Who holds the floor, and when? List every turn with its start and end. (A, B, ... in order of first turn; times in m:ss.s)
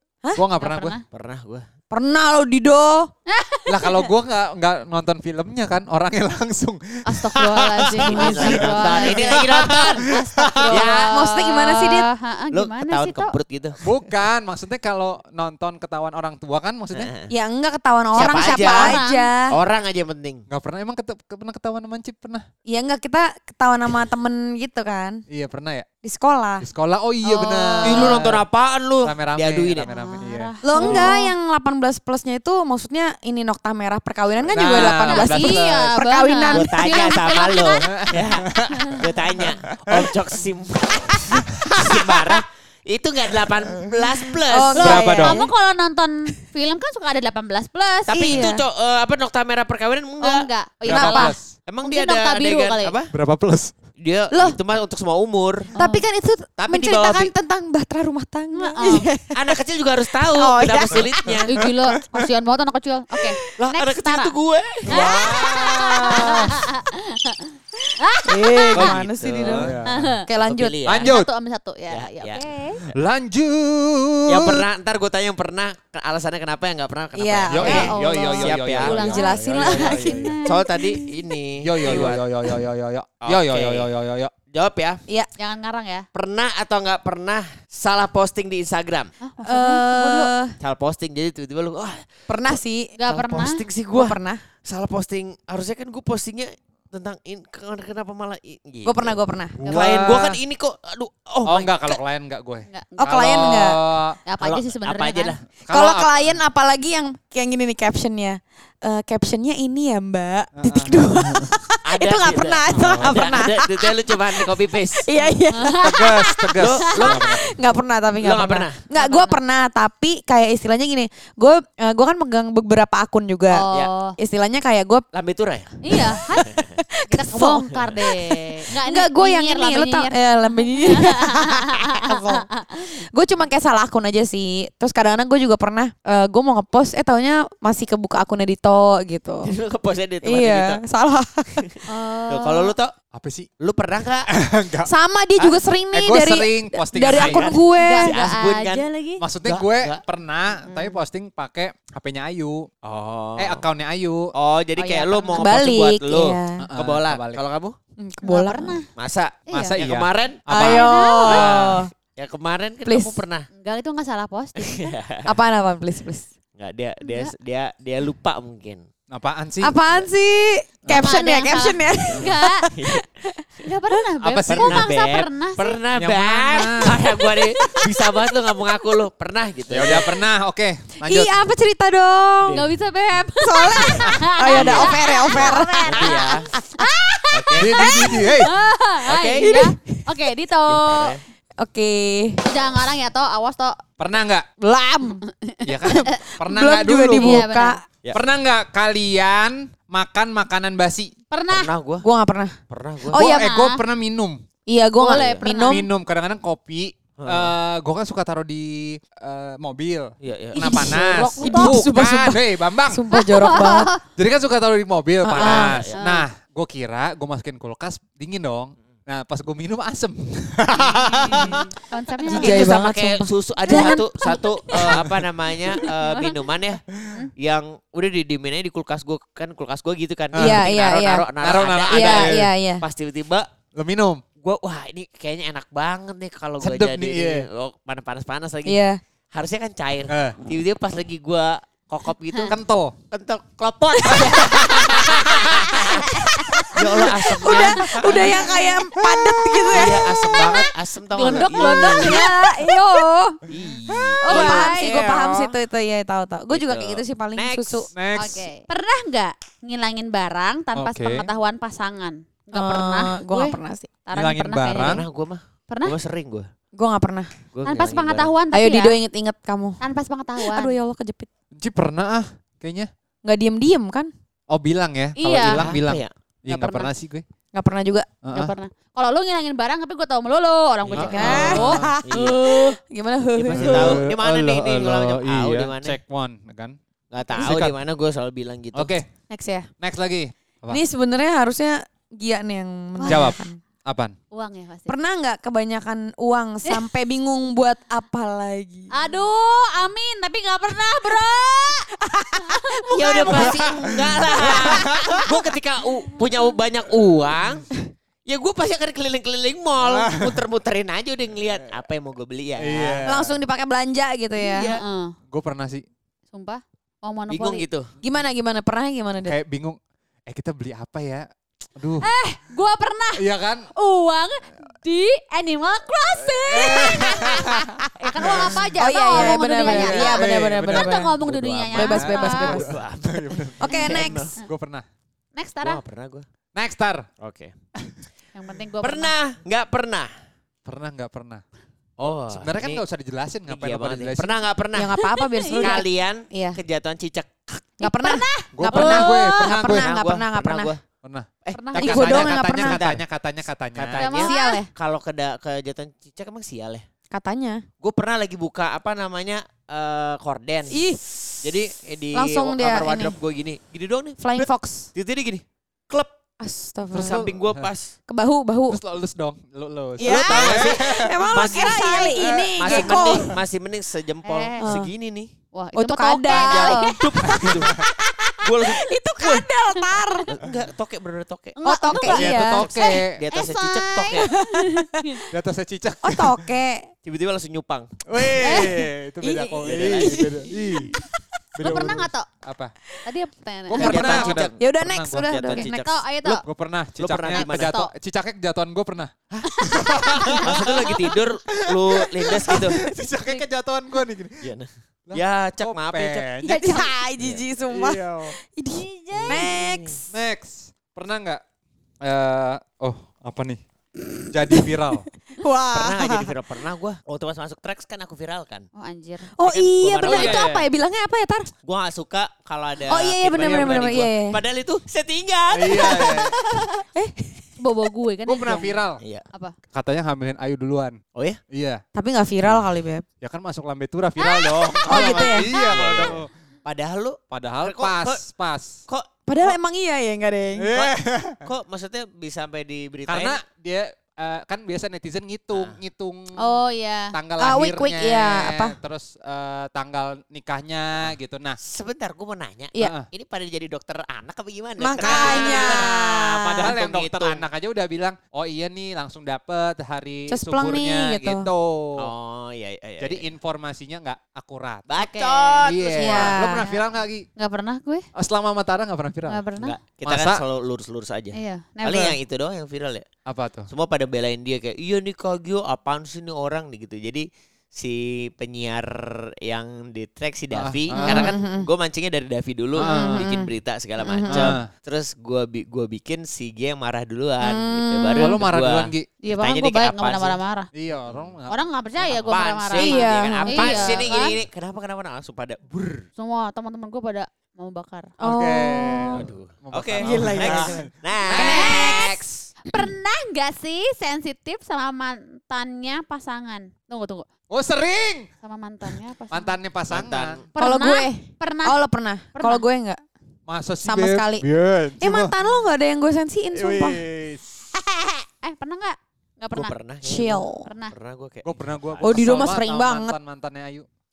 0:00.3-0:01.0 A
0:00.6-0:01.0 B
0:01.1-0:01.7 C
0:01.9-0:03.1 D
0:03.3-0:03.9 B
0:03.7-0:10.9 A
0:07.0-0:13.3 B
0:08.0-0:10.1 C
0:10.7-0:11.1 C
0:11.0-0:12.1 D
0:12.5-0:13.8 C
0:13.8-0:17.1 A
0:16.9-0:17.3 C
0:17.3-0:19.5 D
0:18.1-0:19.0 C
0:18.1-0:19.3 B
0:19.5-0:20.4 C
0:20.5-0:22.4 A
0:22.6-0:25.2 D
0:25.3-0:25.9 A
0:26.0-0:26.7 D
0:26.6-0:28.4 A
0:27.2-0:28.2 B
0:27.8-0:29.9 C
0:29.0-0:31.1 A
0:29.8-0:31.3 B
0:30.6-0:36.8 D
0:34.5-0:35.9 A
0:34.8-0:37.9 B
0:36.5-0:45.1 C
0:37.9-0:40.1 A
0:41.6-0:41.9 A
0:44.5-0:45.5 D
0:44.7-0:48.5 B
0:44.8-0:45.4 A
0:48.1-0:53.1 C
0:48.1-0:48.6 D
0:50.2-0:53.0 B
0:50.8-0:51.5 A
0:51.0-0:51.3 D
0:53.1-0:53.7 A
0:54.0-0:55.7 C
0:54.3-0:54.6 D
0:55.7-0:56.0 B
0:55.7-0:59.6 D
0:56.6-0:57.3 C
0:58.5-0:59.1 B
0:58.8-1:01.6 C
1:00.2-1:01.4 D
1:00.9-1:01.4 A
1:01.5-1:04.3 B
1:03.6-1:06.4 C
1:04.9-1:06.5 A
1:04.9-1:08.7 B
1:08.2-1:10.8 D
1:08.7-1:09.8 C
1:08.8-1:10.1 A
1:09.8-1:10.2 B
1:10.4-1:11.1 C
1:10.8-1:11.3 A
1:11.0-1:12.8 B
1:11.9-1:12.4 C
1:12.9-1:14.6 A
1:14.3-1:22.2 C
1:17.1-1:18.0 D
1:17.5-1:20.4 A
1:17.6-1:20.6 B
1:18.9-1:21.2 D
1:21.6-1:24.3 A
1:23.2-1:23.9 C
1:24.4-1:25.0 C
1:25.4-1:26.0 B
1:26.1-1:29.1 C
1:29.2-1:30.3 B
1:29.4-1:30.5 D
1:30.6-1:42.0 C
1:32.3-1:32.9 D
1:33.0-1:33.6 B
1:33.9-1:34.4 D
1:38.8-1:39.6 D
1:39.6-1:40.4 A
1:39.6-1:39.9 B
1:41.4-1:44.2 A
1:42.7-1:43.4 B
1:43.0-1:43.8 D
1:44.2-1:45.4 B
1:44.4-1:45.4 C
1:45.6-1:46.4 A
1:45.7-2:05.0 D
1:50.6-1:51.5 A
1:51.8-1:55.1 C
1:52.7-1:53.0 B
1:52.7-1:53.4 A
1:55.2-1:56.2 B
1:55.8-1:57.5 A
1:56.6-1:57.2 C
1:58.2-1:58.8 C
1:58.9-1:59.4 B
2:03.5-2:04.2 B
2:05.1-2:06.8 C
2:05.8-2:12.6 B
2:06.9-2:19.5 D
2:19.4-2:20.8 C
2:20.2-2:22.6 D
2:21.6-2:22.9 C
2:21.9-2:22.7 B
2:23.1-2:23.5 A
2:23.6-2:24.3 C
2:24.3-2:27.4 A
2:24.8-2:28.3 D
2:27.0-2:28.9 C
2:27.7-2:29.2 B
2:29.2-2:32.8 A
2:29.4-2:30.0 C
2:30.6-2:31.0 B
2:32.8-2:33.6 C
2:33.4-2:34.3 A
2:34.3-2:37.8 C
2:34.8-2:35.5 B
2:35.3-2:36.6 D
2:36.6-2:37.4 A
2:38.0-2:38.8 D
2:38.2-2:38.9 B
2:39.0-2:40.4 C
2:39.5-2:39.8 B
2:39.5-2:41.8 A
2:40.5-2:41.9 D
2:40.6-2:41.4 B
2:41.4-2:43.5 C
2:42.8-2:43.2 D
2:43.6-2:44.8 B
2:44.6-2:45.3 C
2:45.2-2:46.3 D
2:46.6-2:48.9 C
2:47.0-2:47.3 B
2:49.1-2:49.8 A
2:49.6-2:53.7 D
2:50.9-2:52.7 B
2:52.8-2:53.1 C
2:53.6-2:55.8 B
2:54.2-2:54.9 A
2:54.5-3:00.1 C
2:55.9-2:57.1 A
2:57.4-2:58.2 D
2:59.7-3:01.3 A
3:01.0-3:02.6 D
3:02.5-3:11.2 B
3:03.4-3:06.9 D
3:03.7-3:06.5 C
3:04.5-3:04.8 A
3:07.3-3:07.8 C
3:07.6-3:08.5 A
3:09.1-3:09.6 C
3:09.4-3:10.1 D
3:10.7-3:11.2 C
3:11.6-3:12.4 D
3:12.4-3:13.8 B
3:14.0-3:14.5 A
3:14.6-3:15.2 D
3:15.3-3:16.2 B
3:15.6-3:17.4 A
3:16.4-3:17.8 D
3:17.1-3:17.8 B
3:18.1-3:21.1 A
3:21.3-3:21.7 B
3:21.5-3:22.1 C
3:22.0-3:22.6 D
3:22.7-3:23.2 C
3:23.1-3:23.5 D
3:23.1-3:23.8 B
3:23.1-3:24.4 A
3:24.7-3:25.9 D
3:25.0-3:25.9 B
3:25.1-3:25.4 C
3:25.6-3:33.0 A
3:27.2-3:27.5 C
3:30.2-3:31.5 C
3:30.5-3:33.9 D
3:31.2-3:31.8 B
3:33.2-3:34.0 B
3:34.1-3:41.6 A
3:35.2-3:35.8 D
3:35.4-3:36.0 C
3:35.9-3:36.2 B
3:41.0-3:42.7 B
3:42.2-3:44.5 D
3:42.3-3:46.8 C
3:42.4-3:42.7 A
3:43.7-3:44.5 B
3:44.9-3:45.1 A
3:45.7-3:46.4 B
3:47.4-3:53.5 C
3:50.3-3:50.6 A
3:50.3-3:51.3 D
3:51.4-3:52.5 A
3:51.9-3:52.8 D
3:53.8-3:54.2 A
3:54.4-3:58.8 C
3:56.6-3:57.4 A
3:58.6-3:59.0 D
3:59.3-4:02.6 C
4:00.1-4:00.4 A
4:02.5-4:02.9 A
4:03.1-4:08.4 C
4:04.1-4:04.7 D
4:04.3-4:05.8 A
4:05.7-4:10.7 D
4:05.9-4:06.8 B
4:07.5-4:08.6 B
4:09.7-4:12.2 C
4:09.8-4:12.9 B
4:11.5-4:13.4 D
4:13.5-4:15.0 C
4:14.2-4:15.0 B
4:14.2-4:17.9 D
4:14.3-4:15.5 A
4:16.5-4:17.9 C
4:17.9-4:18.5 A
4:18.1-4:25.0 B
4:20.7-4:21.3 A
4:22.5-4:23.9 D
4:24.1-4:25.0 A
4:24.7-4:26.5 C
4:25.7-4:25.9 B
4:26.8-4:27.3 D
4:27.5-4:28.3 C
4:27.6-4:29.0 B
4:28.5-4:29.8 D
4:29.8-4:30.7 B
4:30.4-4:31.3 D
4:31.6-4:32.9 A
4:33.2-4:34.1 D
4:34.5-4:37.2 A
4:35.2-4:35.6 B
4:35.4-4:36.1 C
4:36.5-4:36.9 B
4:37.5-4:38.1 D
4:38.2-4:38.5 A
4:38.3-4:42.8 B
4:40.8-4:42.4 C
4:40.9-4:41.9 A
4:41.0-4:44.0 D
4:43.4-4:46.0 C
4:43.5-4:46.8 A
4:47.1-4:48.9 C
4:47.3-4:47.8 A
4:48.7-4:49.1 A
4:49.3-4:49.7 B
4:49.8-4:50.8 A
4:50.7-4:53.6 D
4:53.0-4:53.3 B
4:53.1-4:54.1 A
4:54.3-4:54.9 B
4:54.9-4:58.9 D
4:58.9-5:03.6 B
5:02.0-5:03.4 D
5:02.9-5:07.7 C
5:03.3-5:05.2 A
5:04.4-5:04.9 B
5:08.2-5:13.1 C
5:09.8-5:10.4 A
5:12.6-5:13.4 A
5:13.0-5:14.7 D
5:14.4-5:14.8 C
5:14.6-5:15.1 B
5:15.3-5:15.8 A
5:16.3-5:17.6 B
5:17.3-5:17.9 C
5:18.0-5:19.4 D
5:19.2-5:22.1 A
5:22.0-5:32.6 B
5:23.2-5:23.7 A
5:26.2-5:28.6 A
5:28.0-5:31.2 D
5:29.6-5:34.8 A
5:31.3-5:31.6 C
5:31.7-5:32.8 D
5:32.4-5:34.4 C
5:33.6-5:34.3 D
5:35.3-5:35.8 B
5:35.6-5:36.3 C
5:36.5-5:37.1 A
5:37.2-5:37.5 C
5:38.3-5:39.1 B
5:38.8-5:40.1 C
5:40.6-5:41.4 A
5:42.0-5:42.8 C
5:42.3-5:44.4 A
5:43.5-5:45.0 C
5:44.7-5:46.6 D
5:45.0-5:45.8 B
5:45.6-5:47.7 C
5:47.8-5:50.7 D
5:47.8-5:49.3 B
5:48.5-5:49.9 A
5:49.0-5:50.8 C
5:51.0-5:54.1 A
5:51.4-5:53.0 C
5:51.5-5:52.1 B
5:51.8-5:52.8 D
5:53.7-5:56.8 C
5:54.0-5:54.7 B
5:54.2-5:54.6 D
5:57.1-5:57.6 D
5:57.8-6:00.8 C
6:00.7-6:01.5 D
6:01.4-6:06.1 C
6:02.1-6:03.2 D
6:04.2-6:04.9 D
6:06.4-6:07.3 D
6:06.9-6:07.7 A
6:07.0-6:07.9 C
6:08.1-6:08.8 D
6:08.7-6:13.4 A
6:10.0-6:13.3 D
6:10.0-6:15.3 C
6:14.2-6:14.7 B
6:14.6-6:14.9 D
6:15.5-6:17.0 B
6:15.7-6:20.3 D
6:16.3-6:17.8 C
6:17.3-6:17.7 A
6:18.4-6:19.4 C
6:20.3-6:24.3 C
6:21.6-6:25.2 B
6:21.6-6:22.7 D
6:22.1-6:23.2 A
6:24.1-6:25.2 D
6:25.3-6:26.5 A
6:26.0-6:26.9 D
6:27.0-6:27.9 C
6:28.1-6:30.9 A
6:28.3-6:31.2 D
6:28.4-6:28.8 B
6:29.6-6:30.5 C
6:31.6-6:32.7 A
6:31.6-6:32.3 B
6:33.0-6:34.3 B
6:33.7-6:34.6 C
6:33.7-6:35.5 A
6:33.8-6:35.8 D
6:35.2-6:36.0 C
6:35.5-6:36.4 B
6:36.2-6:44.5 A
6:37.0-6:37.8 C
6:37.3-6:37.9 B
6:39.6-6:40.4 B
6:40.3-6:42.8 C
6:44.4-6:46.3 C
6:45.1-6:46.8 A
6:46.4-6:50.1 D
6:47.6-6:48.3 A
6:48.7-6:49.5 B
6:49.1-6:50.0 C
6:50.1-6:51.4 A
6:52.0-6:53.6 A
6:54.3-6:55.1 A
6:54.5-6:56.3 D
6:55.7-6:58.7 C
6:58.7-6:59.3 B
6:59.3-7:01.5 D
6:59.4-7:00.5 C
7:00.0-7:00.6 A
7:01.6-7:06.8 C
7:02.8-7:04.4 D
7:03.3-7:04.0 A
7:05.5-7:06.4 A
7:06.9-7:07.4 D
7:07.6-7:08.8 B
7:08.3-7:09.0 A
7:09.0-7:09.2 C
7:09.7-7:11.0 A
7:11.1-7:11.4 C
7:11.5-7:11.8 A
7:11.9-7:13.0 D
7:13.2-7:16.3 A
7:14.2-7:14.9 B
7:14.8-7:15.5 D
7:14.9-7:18.2 C
7:17.3-7:18.8 A
7:19.3-7:20.8 D
7:20.6-7:21.5 A
7:20.7-7:23.4 C
7:23.1-7:26.6 A
7:25.5-7:25.8 C
7:26.4-7:27.1 B
7:27.1-7:31.6 A
7:27.4-7:28.8 D
7:31.0-7:37.4 C
7:32.8-7:33.1 A
7:34.8-7:36.6 D
7:35.0-7:35.9 A
7:36.6-7:42.1 A
7:40.3-7:41.5 D
7:42.0-7:43.3 C
7:43.0-7:44.9 A
7:44.9-7:46.6 C
7:45.0-7:45.6 B
7:45.6-7:47.3 A
7:46.0-7:46.6 D
7:47.4-7:48.0 B
7:48.1-7:49.4 A
7:49.3-7:49.8 B
7:49.6-7:53.0 C
7:50.0-7:50.4 A
7:51.3-7:52.2 B
7:53.2-7:53.7 A
7:53.7-8:10.4 C
8:00.5-8:01.3 A
8:01.0-8:01.7 D
8:02.8-8:03.3 A
8:02.8-8:04.6 D
8:04.3-8:04.7 A
8:07.4-8:08.4 D
8:08.2-8:09.1 A
8:09.2-8:10.7 B
8:10.7-8:11.6 A
8:11.1-8:11.4 C
8:11.5-8:14.4 B
8:12.0-8:16.0 C
8:12.7-8:14.0 D
8:16.2-8:18.1 B
8:18.2-8:19.3 D
8:18.2-8:21.7 A
8:19.1-8:22.5 C
8:20.0-8:22.2 D
8:21.3-8:22.0 B
8:22.7-8:27.3 B
8:27.5-8:28.3 A
8:28.4-8:29.5 B
8:29.3-8:30.4 A
8:29.9-8:30.5 C
8:30.5-8:31.8 B
8:30.6-8:33.0 D
8:32.3-8:32.6 B
8:33.5-8:35.3 A
8:33.8-8:34.4 D
8:35.0-8:37.0 D
8:36.5-8:37.5 A
8:38.4-8:39.7 B
8:39.5-8:42.6 C
8:40.0-8:40.7 D
8:40.6-8:40.9 B
8:41.4-8:43.8 A
8:42.0-8:43.2 D